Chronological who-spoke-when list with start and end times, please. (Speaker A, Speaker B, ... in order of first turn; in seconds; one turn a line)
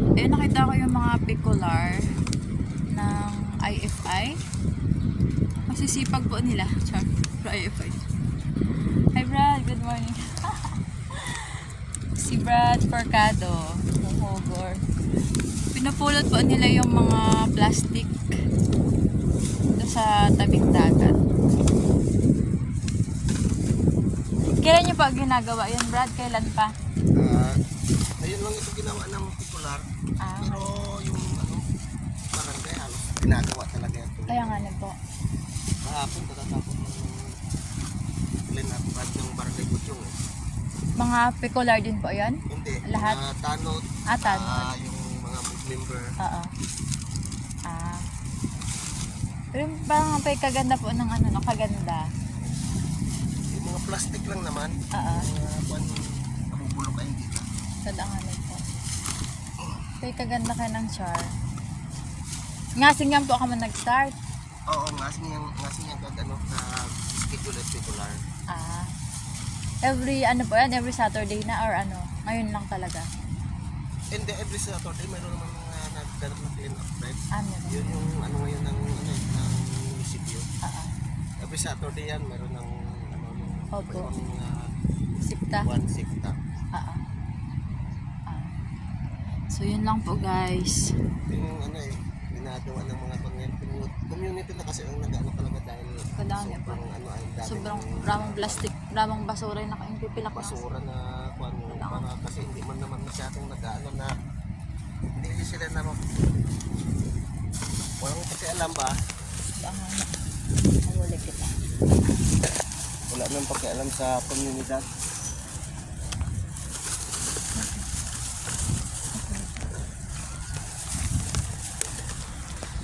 Speaker A: 0.2-2.0
Speaker A: 2.9-4.4
Speaker A: 5.7-8.0
Speaker A: 9.1-10.7
Speaker A: 12.2-14.8
Speaker A: 15.7-18.1
Speaker A: 19.8-21.1
Speaker A: 24.5-26.7
Speaker B: 27.2-27.5
Speaker B: 28.2-29.8
Speaker A: 30.2-30.7
Speaker B: 30.4-31.6
Speaker B: 32.3-34.6
Speaker A: 34.3-35.0
Speaker B: 35.8-37.2
Speaker B: 38.5-40.1
Speaker A: 41.0-42.4
Speaker B: 42.5-46.0
Speaker A: 42.9-43.2
Speaker A: 44.1-44.7
Speaker A: 46.2-46.5
Speaker A: 47.7-48.0
Speaker A: 49.5-52.0
Speaker B: 53.5-55.9
Speaker A: 54.9-55.3
Speaker B: 56.5-57.4
Speaker A: 57.8-58.6
Speaker A: 60.0-61.3
Speaker A: 62.8-64.1
Speaker B: 64.7-68.2
Speaker A: 68.5-68.9
Speaker A: 69.8-73.0
Speaker B: 74.1-77.2
Speaker A: 77.3-78.0
Speaker B: 77.7-80.4
Speaker A: 80.6-80.9
Speaker B: 81.4-84.5
Speaker A: 83.8-84.1
Speaker A: 85.2-85.7
Speaker B: 85.6-86.3
Speaker A: 86.7-87.0
Speaker A: 89.5-90.8
Speaker B: 91.3-98.6
Speaker A: 96.2-96.8
Speaker A: 97.5-100.6
Speaker B: 100.2-104.1
Speaker A: 101.7-102.0
Speaker B: 105.2-106.0
Speaker B: 108.0-108.9
Speaker A: 109.6-110.1
Speaker A: 110.9-111.5
Speaker B: 113.1-114.8
Speaker A: 117.5-117.8
Speaker A: 119.2-119.5